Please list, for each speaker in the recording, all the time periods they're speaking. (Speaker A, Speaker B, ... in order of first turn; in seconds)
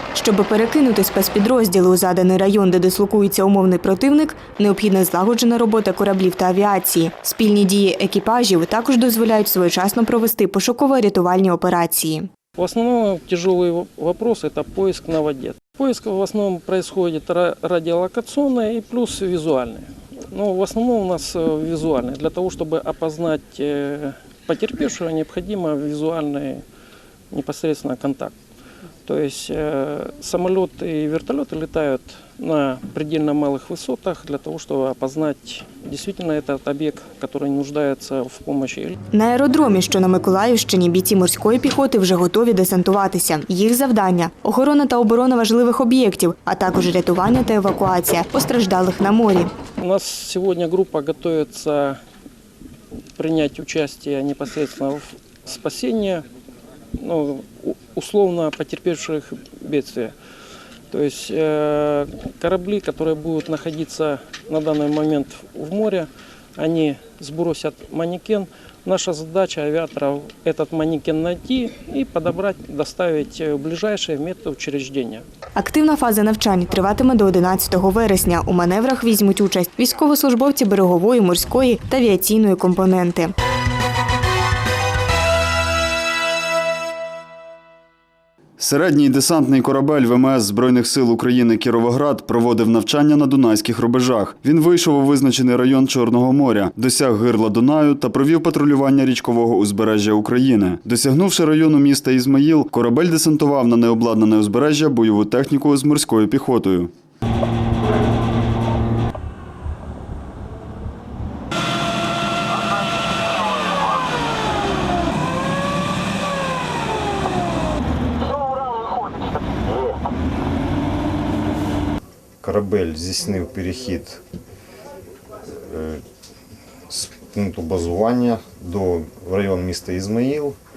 Speaker A: 0.1-12.3, 39.1-49.5, 75.6-83.3
Speaker B: 12.6-26.6, 27.3-28.3, 29.1-38.9, 49.8-52.0, 53.1-56.2, 57.0-60.1, 60.9-75.2
Speaker C: 88.6-106.9
Speaker D: 122.4-124.2, 125.5-126.0, 126.9-130.6